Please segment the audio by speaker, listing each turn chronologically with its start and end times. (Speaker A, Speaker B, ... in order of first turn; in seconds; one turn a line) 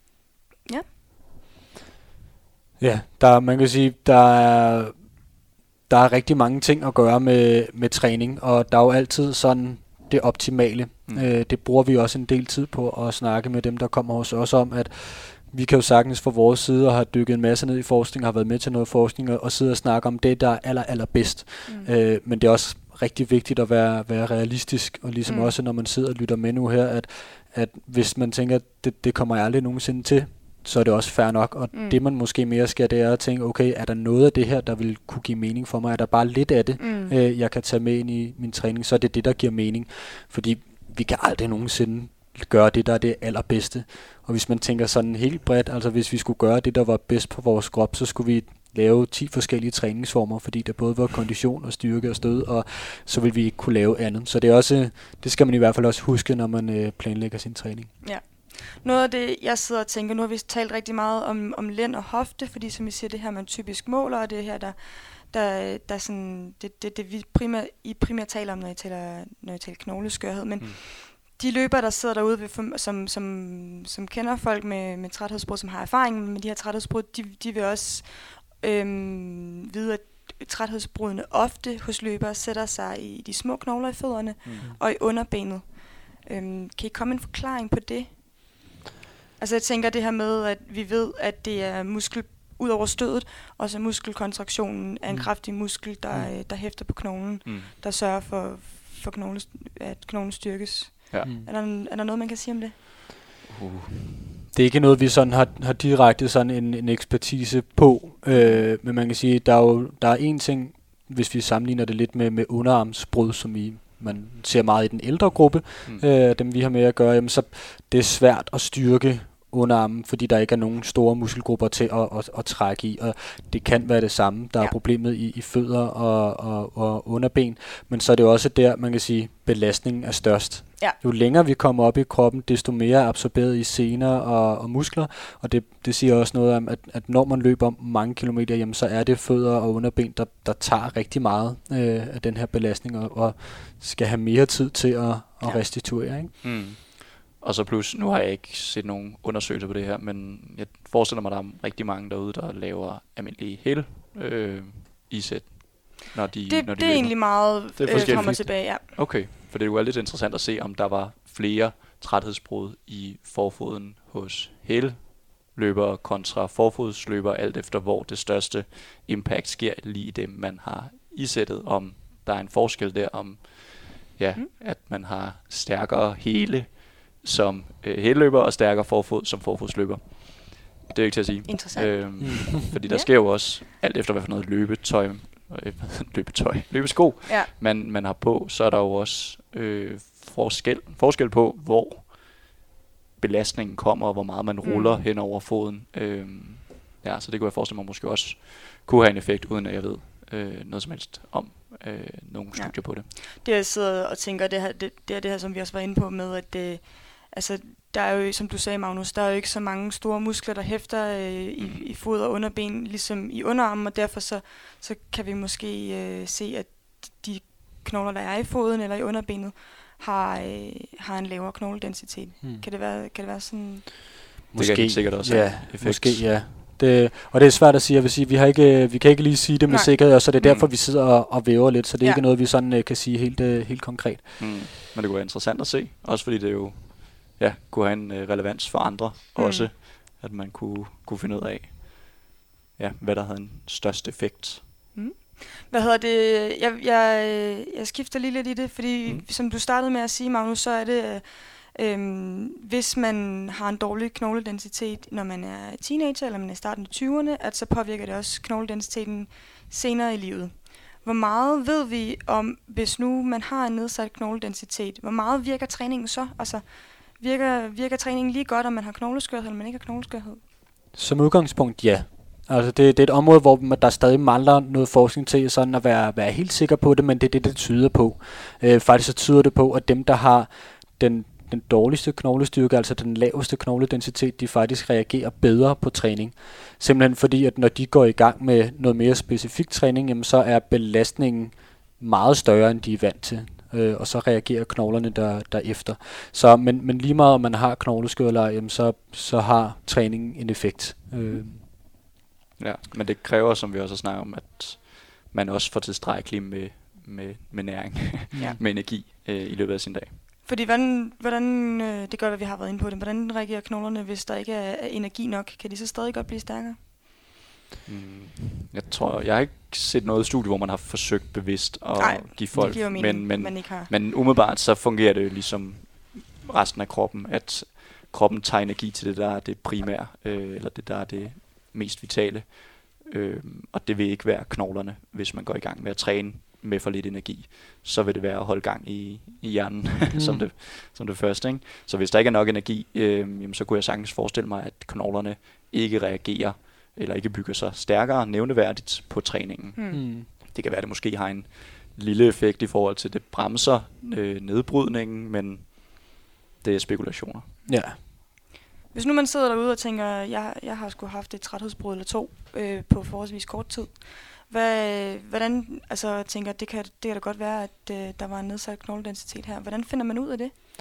Speaker A: 2.8-5.3
Speaker A: 5.9-57.9
Speaker B: 25.2-25.5
Speaker B: 31.7-32.0
Speaker B: 36.8-37.1
Speaker B: 58.0-88.2
Speaker C: 84.4-84.7
Speaker B: 89.4-102.7
Speaker A: 95.1-96.3
Speaker C: 97.4-97.7
Speaker A: 101.2-101.5
Speaker C: 103.5-104.2
Speaker A: 104.5-146.3
Speaker B: 108.3-108.6
Speaker C: 146.4-192.6
Speaker B: 156.5-158.8
Speaker A: 157.9-158.4
Speaker B: 181.5-183.1
Speaker A: 182.2-182.6
Speaker C: 193.2-203.1
Speaker B: 194.6-195.0
Speaker B: 202.5-224.0
Speaker C: 211.6-211.9
Speaker A: 222.4-222.7
Speaker A: 224.5-234.6
Speaker C: 224.6-226.4
Speaker B: 229.7-230.0
Speaker C: 230.4-230.7
Speaker C: 234.4-244.6
Speaker B: 239.3-239.7
Speaker B: 244.9-270.4
Speaker A: 270.9-301.6
Speaker C: 301.3-310.2
Speaker B: 310.4-316.8
Speaker C: 317.9-357.5
Speaker B: 322.0-323.9
Speaker A: 340.1-340.4
Speaker B: 349.8-350.0
Speaker A: 349.9-350.3
Speaker A: 357.7-358.0
Speaker B: 358.9-370.5